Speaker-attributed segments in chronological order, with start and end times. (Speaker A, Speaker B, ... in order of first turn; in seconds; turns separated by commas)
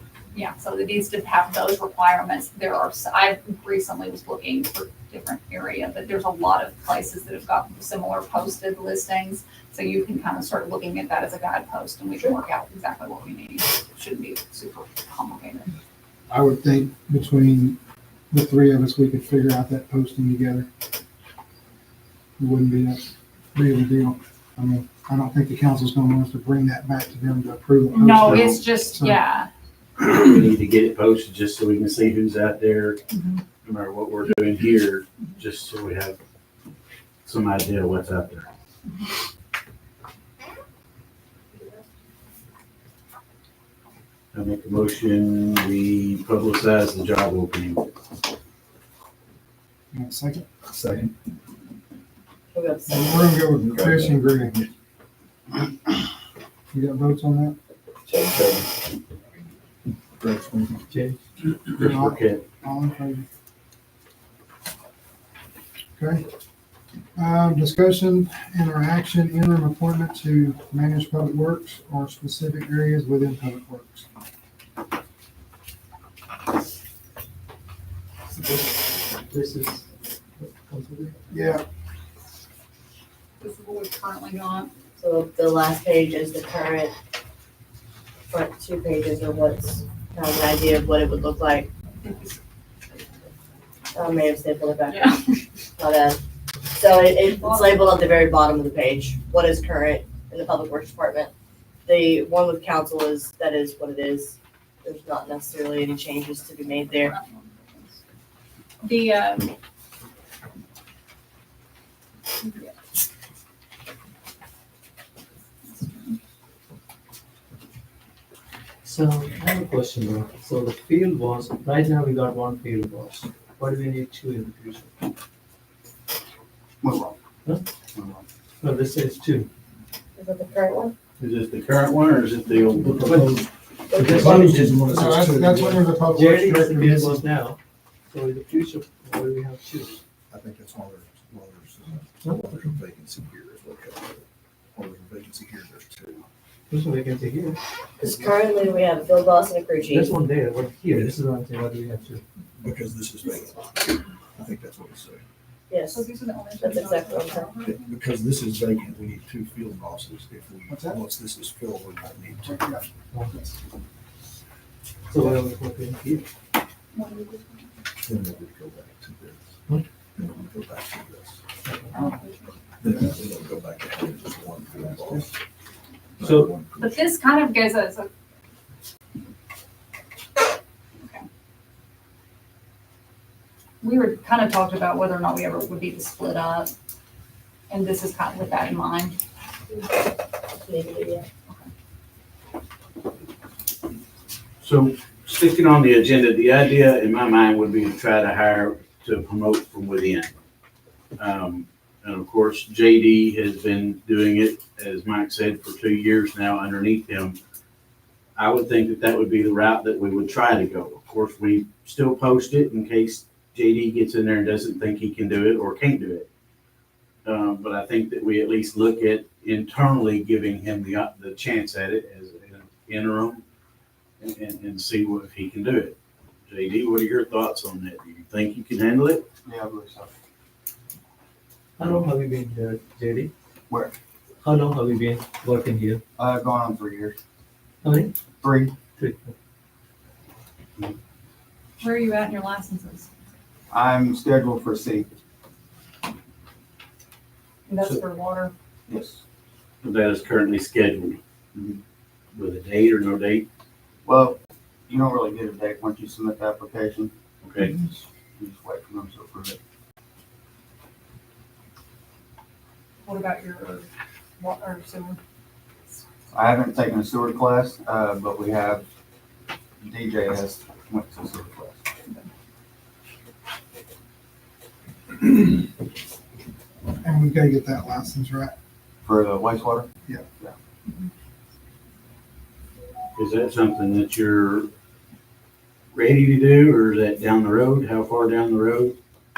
Speaker A: 0.3-15.7, Speaker B: 16.3-17.8, Speaker B: 18.3-20.7, Speaker B: 22.4-29.2, Speaker A: 27.9-29.5, Speaker C: 30.0-33.0, Speaker A: 33.1-33.4, Speaker C: 33.6-36.2, Speaker C: 37.2-38.5, Speaker C: 44.3-47.9, Speaker B: 49.9-50.5, Speaker D: 50.6-51.1, Speaker E: 52.5-53.4, Speaker B: 52.9-54.6, Speaker D: 53.6-54.6, Speaker B: 56.7-57.5, Speaker C: 58.1-58.7, Speaker D: 60.2-60.9, Speaker F: 60.9-61.2, Speaker C: 61.7-62.4, Speaker B: 61.7-63.3, Speaker B: 66.0-66.2, Speaker B: 67.2-74.1, Speaker F: 78.3-79.8, Speaker F: 80.4-81.2, Speaker B: 81.3-81.6, Speaker A: 83.4-84.7, Speaker E: 85.0-86.9, Speaker E: 88.3-91.7, Speaker A: 92.0-92.4, Speaker E: 93.9-95.1, Speaker A: 94.9-95.4, Speaker E: 95.8-101.3, Speaker A: 97.0-98.3, Speaker E: 101.8-107.1, Speaker A: 106.8-108.0, Speaker A: 108.8-109.5, Speaker A: 112.4-112.7, Speaker A: 115.7-116.2, Speaker F: 118.8-125.0, Speaker G: 126.8-127.2, Speaker G: 127.9-128.2, Speaker F: 128.6-129.5, Speaker E: 130.2-130.9, Speaker C: 131.2-133.4, Speaker D: 132.9-135.9, Speaker E: 133.9-134.7, Speaker F: 134.0-134.8, Speaker B: 134.8-137.2, Speaker F: 136.0-137.6, Speaker F: 138.1-140.0, Speaker D: 140.3-146.3, Speaker F: 142.2-142.8, Speaker F: 146.7-148.3, Speaker E: 148.0-150.1, Speaker F: 149.9-152.2, Speaker D: 150.9-151.2, Speaker D: 152.6-155.2, Speaker E: 155.7-156.0, Speaker A: 155.9-157.9, Speaker E: 156.6-157.5, Speaker D: 157.6-162.6, Speaker B: 160.7-161.1, Speaker B: 162.4-163.5, Speaker F: 163.1-163.4, Speaker F: 165.1-166.3, Speaker A: 166.9-167.7, Speaker D: 168.0-169.4, Speaker D: 170.2-171.4, Speaker A: 171.9-172.5, Speaker D: 172.8-175.3, Speaker D: 176.2-177.1, Speaker F: 176.2-176.5, Speaker A: 176.8-178.1, Speaker A: 181.0-181.2, Speaker A: 183.8-186.7, Speaker A: 187.7-189.2, Speaker E: 190.6-191.2, Speaker C: 194.6-200.3, Speaker C: 201.2-207.4, Speaker C: 208.3-216.3, Speaker C: 217.2-223.4, Speaker C: 224.2-225.9, Speaker C: 226.5-229.2, Speaker G: 229.4-230.1, Speaker F: 231.8-233.3, Speaker G: 233.7-233.9, Speaker F: 234.4-236.0, Speaker G: 236.2-237.2, Speaker F: 237.8-238.1, Speaker G: 238.4-238.7, Speaker F: 238.9-239.3, Speaker A: 241.8-243.1, Speaker G: 243.7-245.1, Speaker A: 247.7-248.5, Speaker G: 248.9-249.2, Speaker C: 249.8-251.2, Speaker G: 251.5-251.8, Speaker C: 252.3-253.4, Speaker G: 254.0-257.1, Speaker C: 257.4-257.7, Speaker G: 257.7-259.6, Speaker A: 263.0-263.9, Speaker A: 264.4-265.2, Speaker G: 266.3-268.8, Speaker G: 269.8-271.8, Speaker B: 277.0-278.5, Speaker G: 279.0-279.9, Speaker C: 283.1-284.7, Speaker C: 285.9-288.9